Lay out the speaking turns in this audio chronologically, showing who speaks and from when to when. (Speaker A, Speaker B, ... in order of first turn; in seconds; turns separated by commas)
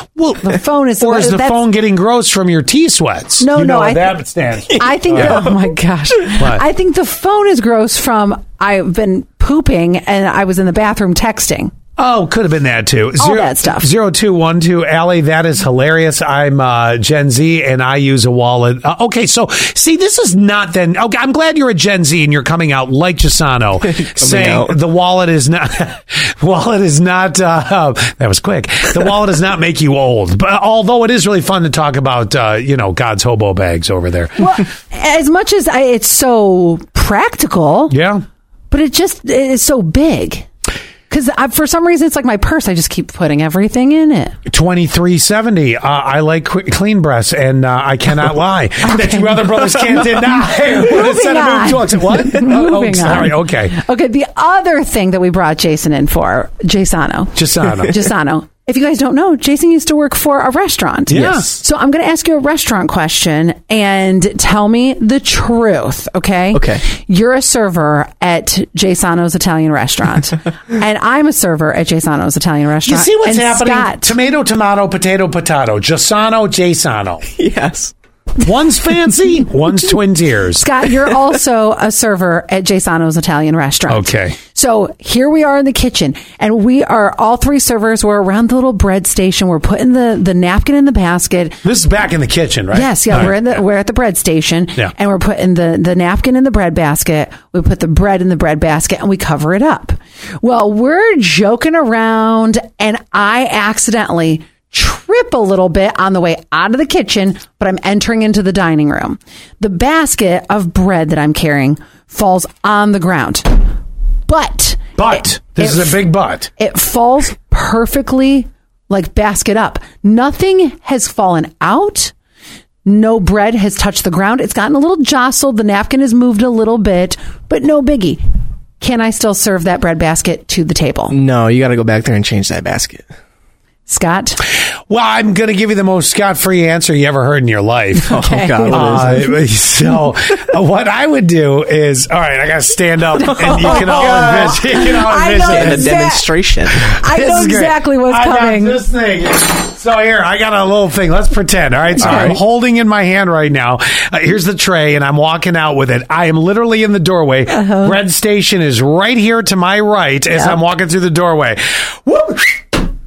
Speaker A: 0.2-5.4, Speaker B: 0.4-1.6, Speaker B: 3.4-4.1, Speaker B: 4.7-11.7, Speaker A: 6.3-6.6, Speaker A: 12.0-34.5, Speaker B: 13.2-13.9, Speaker C: 24.0-24.7, Speaker B: 34.4-37.9, Speaker A: 37.9-38.2, Speaker B: 38.7-40.5, Speaker B: 41.1-44.3, Speaker A: 44.5-53.8, Speaker B: 48.8-50.0, Speaker B: 50.5-74.2, Speaker A: 57.4-57.9, Speaker A: 61.1-61.6, Speaker C: 66.5-66.8, Speaker A: 72.8-77.2, Speaker C: 77.3-77.9, Speaker A: 78.4-80.7, Speaker B: 80.5-91.6, Speaker A: 83.9-84.4, Speaker A: 91.6-93.4, Speaker B: 92.7-113.6, Speaker B: 114.3-116.0, Speaker A: 115.0-116.5, Speaker B: 116.6-122.1, Speaker B: 122.8-128.2, Speaker B: 128.8-131.2, Speaker C: 131.1-133.0, Speaker B: 133.9-134.4, Speaker A: 134.9-138.2, Speaker B: 138.0-139.3, Speaker C: 138.1-139.2, Speaker A: 138.7-146.0, Speaker B: 143.6-146.3, Speaker C: 143.6-144.6, Speaker C: 145.4-146.9, Speaker B: 146.8-148.8, Speaker A: 147.0-162.8, Speaker C: 152.0-152.4, Speaker B: 157.5-158.0